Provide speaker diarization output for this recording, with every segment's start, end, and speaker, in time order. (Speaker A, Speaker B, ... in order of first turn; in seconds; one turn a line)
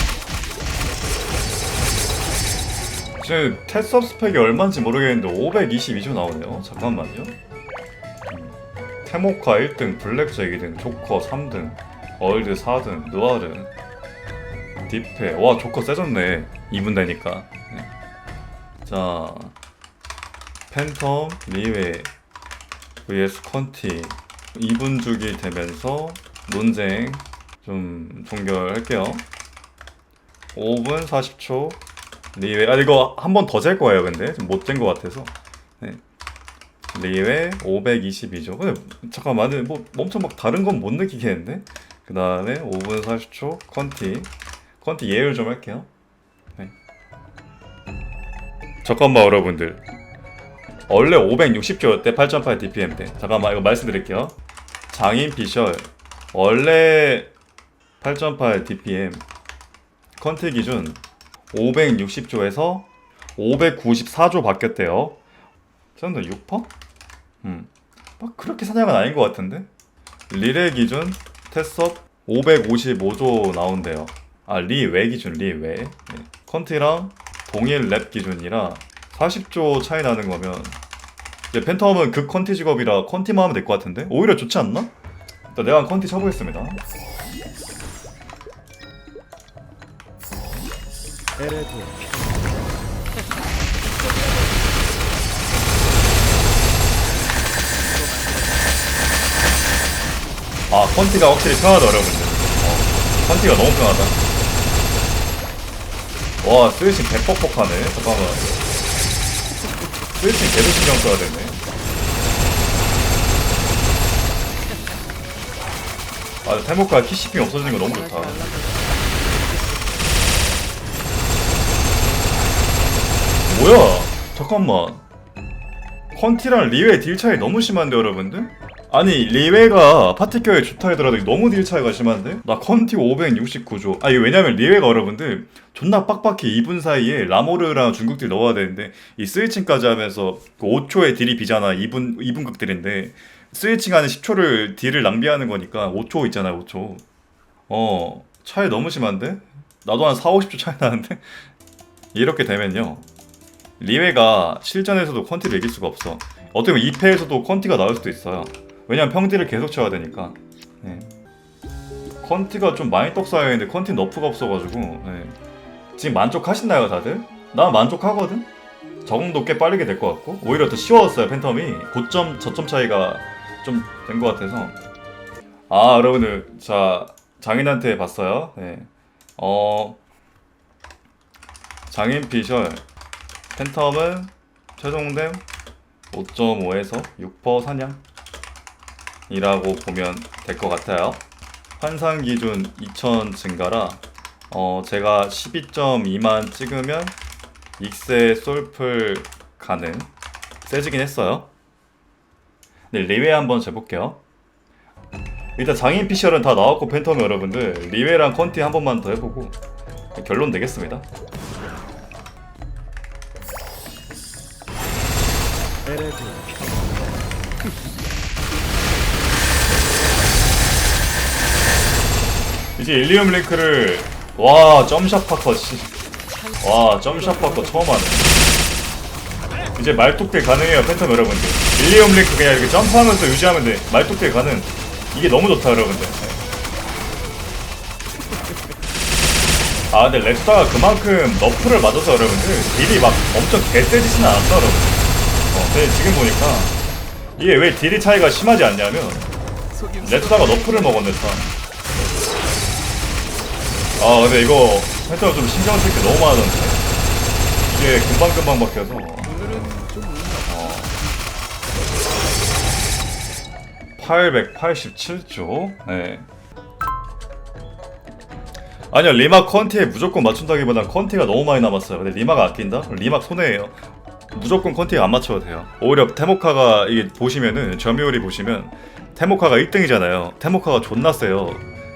Speaker A: 3.2-7.3
Speaker A: 8.3-13.7
Speaker A: 14.9-17.9
Speaker A: 18.8-19.5
Speaker A: 20.7-22.1
Speaker A: 23.1-29.2
Speaker A: 30.5-31.8
Speaker A: 32.3-36.0
Speaker A: 36.9-44.3
Speaker A: 44.8-45.9
Speaker A: 48.8-49.8
Speaker A: 50.9-54.3
Speaker A: 54.9-57.3
Speaker A: 58.0-59.2
Speaker A: 60.2-61.0
Speaker A: 61.5-65.2
Speaker A: 66.0-66.7
Speaker A: 67.4-69.7
Speaker A: 70.3-80.8
Speaker A: 81.5-84.9
Speaker A: 85.5-86.8
Speaker B: 91.4-92.0
Speaker B: 93.4-95.2
Speaker B: 97.8-98.9
Speaker A: 100.7-104.1
Speaker A: 106.4-108.5
Speaker A: 110.2-111.5
Speaker A: 116.4-118.4
Speaker B: 117.7-119.9
Speaker B: 122.3-123.4
Speaker A: 123.5-125.0
Speaker A: 126.1-147.0
Speaker A: 147.7-151.4
Speaker A: 152.1-153.1
Speaker A: 153.8-161.1
Speaker A: 162.2-165.3
Speaker A: 165.9-168.5
Speaker A: 169.0-174.8
Speaker A: 175.7-180.0
Speaker A: 181.9-182.8
Speaker A: 183.5-185.4
Speaker A: 186.1-188.0
Speaker A: 189.3-191.2
Speaker A: 191.8-197.1
Speaker A: 197.8-200.1
Speaker A: 200.6-201.5
Speaker A: 202.9-204.2
Speaker A: 205.6-209.6
Speaker A: 210.2-211.0
Speaker B: 215.9-216.7
Speaker A: 222.8-225.9
Speaker B: 226.3-228.5
Speaker A: 226.6-228.3
Speaker A: 229.8-236.4
Speaker A: 239.9-246.8
Speaker A: 247.4-249.3
Speaker B: 249.7-251.4
Speaker A: 250.0-251.5
Speaker A: 254.0-256.8
Speaker A: 257.7-259.3
Speaker B: 259.1-261.0
Speaker A: 260.5-260.9
Speaker A: 264.0-266.2
Speaker A: 268.9-273.8
Speaker A: 274.3-281.6